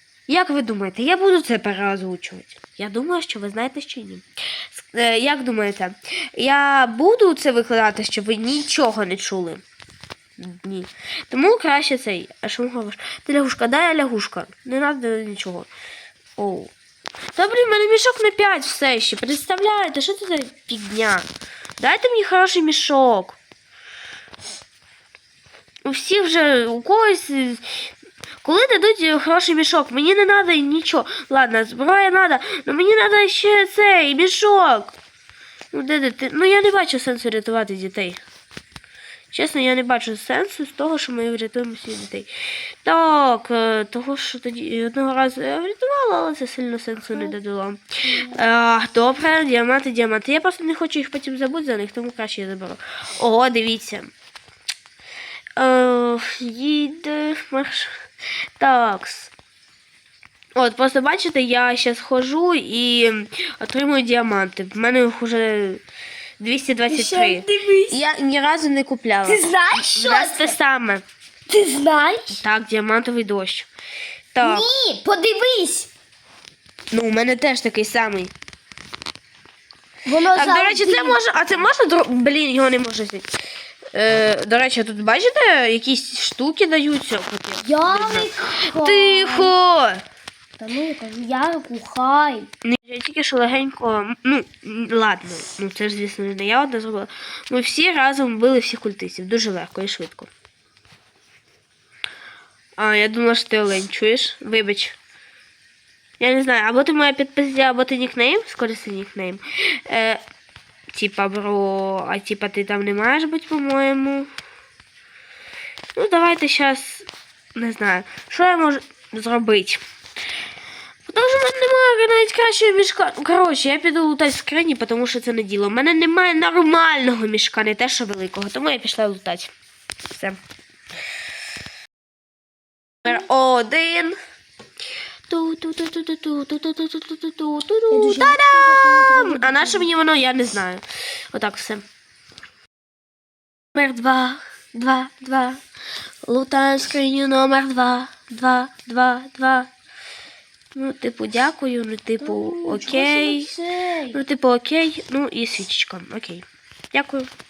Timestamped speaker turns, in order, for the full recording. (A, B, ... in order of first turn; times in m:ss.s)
0:00.3-0:09.6 A
0:10.4-0:15.7 A
0:16.4-0:16.7 A
0:17.4-0:21.3 A
0:21.8-0:23.4 A
0:25.8-0:27.8 A
0:28.4-0:35.0 A
0:35.7-0:38.2 A
0:39.3-0:42.3 A
0:42.8-0:54.1 A
0:48.1-0:48.4 B
0:55.6-0:58.0 A
0:58.6-0:59.3 A
1:00.6-1:05.8 A
1:06.4-1:11.0 A
1:06.9-1:08.0 B
1:09.2-1:10.6 B
1:11.5-1:12.4 B
1:12.3-1:13.7 A
1:14.3-1:14.7 A
1:14.4-1:15.9 B
1:16.9-1:18.3 A
1:20.1-1:21.2 B
1:20.3-1:23.3 A
1:23.9-1:30.0 A
1:27.6-1:29.5 B
1:30.6-1:32.5 B
1:32.6-1:40.3 A
1:42.8-1:45.0 A
1:46.2-1:50.2 A
1:50.9-1:54.3 A
1:56.0-1:59.8 A
2:01.1-2:09.5 A
2:10.1-2:10.4 A
2:13.0-2:14.2 A
2:15.3-2:21.8 A
2:17.9-2:19.9 B
2:23.7-2:25.6 A
2:26.2-2:29.7 A
2:30.8-2:33.5 A
2:32.2-2:34.2 B
2:34.1-2:37.3 A